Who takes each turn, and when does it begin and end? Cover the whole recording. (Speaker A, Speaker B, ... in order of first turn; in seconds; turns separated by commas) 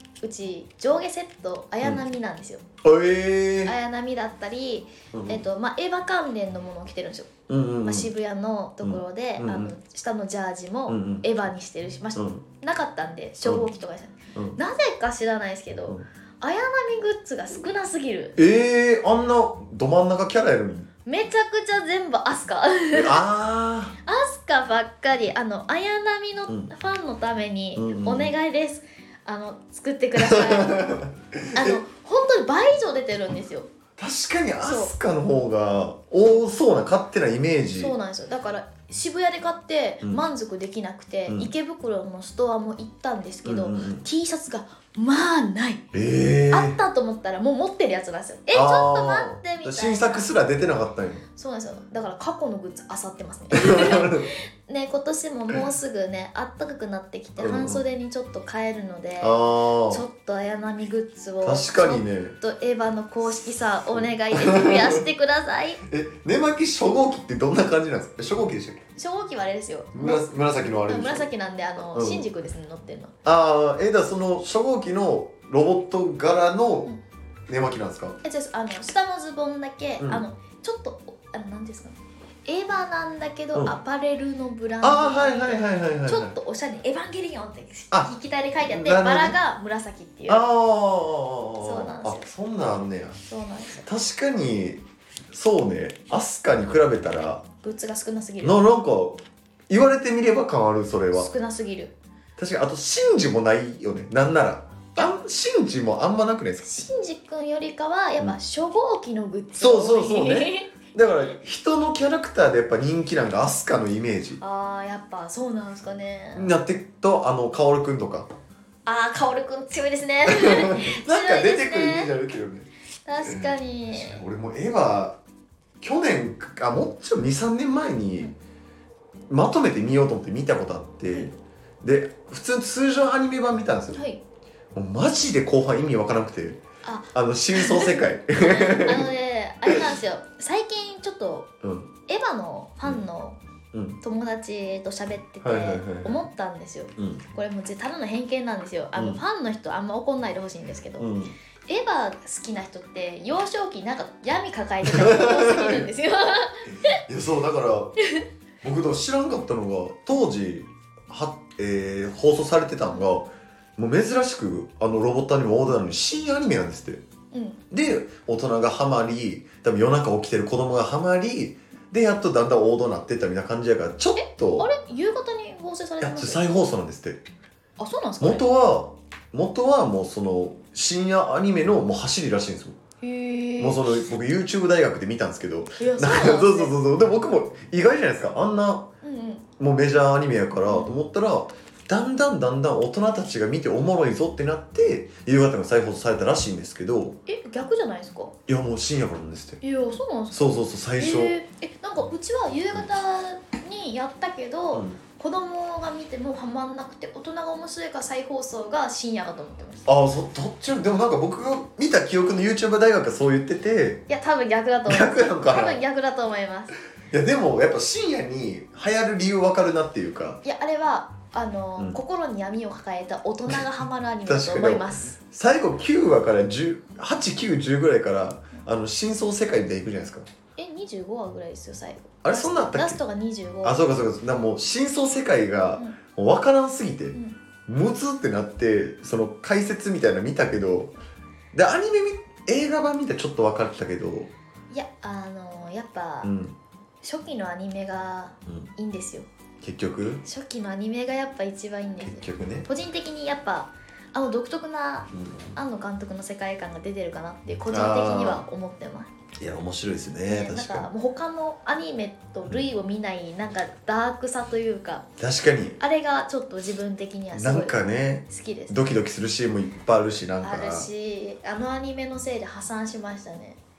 Speaker A: 0.2-2.6, Speaker B: 2.8-3.8, Speaker A: 3.6-18.4, Speaker B: 5.1-5.4, Speaker B: 7.5-8.1, Speaker B: 8.8-9.7, Speaker B: 10.9-11.2, Speaker B: 12.2-12.4, Speaker B: 18.4-20.9, Speaker A: 21.1-23.2, Speaker B: 22.9-23.9, Speaker A: 24.1-30.9, Speaker B: 27.8-28.3, Speaker B: 30.2-31.8, Speaker A: 31.6-33.7, Speaker B: 34.0-38.0, Speaker A: 34.6-34.9, Speaker A: 37.8-45.8, Speaker B: 43.5-44.0, Speaker B: 45.9-46.8, Speaker A: 46.5-50.3, Speaker B: 48.5-51.2, Speaker A: 51.4-65.8, Speaker B: 53.5-54.3, Speaker B: 57.4-57.8, Speaker B: 59.2-60.0, Speaker B: 61.4-62.4, Speaker B: 64.0-65.0, Speaker B: 65.8-68.8, Speaker A: 69.0-70.3, Speaker B: 69.9-72.3, Speaker A: 70.9-73.2, Speaker B: 73.2-76.9, Speaker B: 77.5-78.2, Speaker A: 78.2-90.4, Speaker B: 84.8-86.4, Speaker B: 87.9-89.4, Speaker B: 90.3-93.2, Speaker A: 91.6-92.3, Speaker A: 93.3-93.9, Speaker B: 93.8-97.4, Speaker A: 97.6-98.6, Speaker B: 98.4-101.3, Speaker A: 101.1-101.9, Speaker B: 102.4-106.7, Speaker A: 106.6-110.8, Speaker B: 109.5-114.4, Speaker A: 114.4-116.5, Speaker B: 116.3-118.3, Speaker A: 118.9-122.1, Speaker B: 120.3-122.7, Speaker A: 123.1-124.2, Speaker B: 123.2-125.2, Speaker B: 125.8-128.3, Speaker B: 129.3-134.0, Speaker A: 133.9-134.2, Speaker B: 134.7-136.6, Speaker A: 136.8-141.5, Speaker B: 137.1-139.1, Speaker B: 141.6-141.9, Speaker A: 142.1-143.4, Speaker B: 143.7-144.0, Speaker A: 144.0-151.1, Speaker B: 145.4-146.2, Speaker B: 147.0-147.2, Speaker B: 149.0-149.2, Speaker B: 151.0-151.3, Speaker A: 151.7-157.0, Speaker B: 154.9-155.9, Speaker B: 156.8-158.0, Speaker B: 158.6-167.0, Speaker A: 167.3-167.6, Speaker B: 167.7-174.7, Speaker A: 174.2-176.6, Speaker B: 176.0-177.2, Speaker A: 177.8-178.4, Speaker B: 178.2-182.8, Speaker A: 183.0-184.0, Speaker B: 183.6-188.9, Speaker A: 185.8-186.7, Speaker A: 189.0-189.4, Speaker B: 189.6-197.2, Speaker A: 190.7-190.9, Speaker A: 197.3-198.4, Speaker B: 198.5-199.6, Speaker A: 199.6-209.9, Speaker B: 200.3-201.4, Speaker B: 204.7-205.0, Speaker B: 209.9-214.1, Speaker A: 214.1-216.8, Speaker B: 214.9-215.8, Speaker B: 217.1-220.4, Speaker A: 220.4-225.2, Speaker B: 224.3-230.3, Speaker A: 230.6-233.8, Speaker B: 232.2-233.0, Speaker B: 233.6-240.9, Speaker B: 241.5-244.3, Speaker A: 244.7-246.3, Speaker B: 246.2-246.6, Speaker A: 247.0-249.3, Speaker B: 249.6-250.2, Speaker A: 250.2-259.1, Speaker B: 252.0-252.7, Speaker B: 255.1-255.6, Speaker B: 257.7-258.4, Speaker B: 259.4-260.9, Speaker A: 260.3-265.1, Speaker B: 265.2-265.8, Speaker A: 265.8-268.8, Speaker B: 267.3-270.9, Speaker A: 270.4-273.6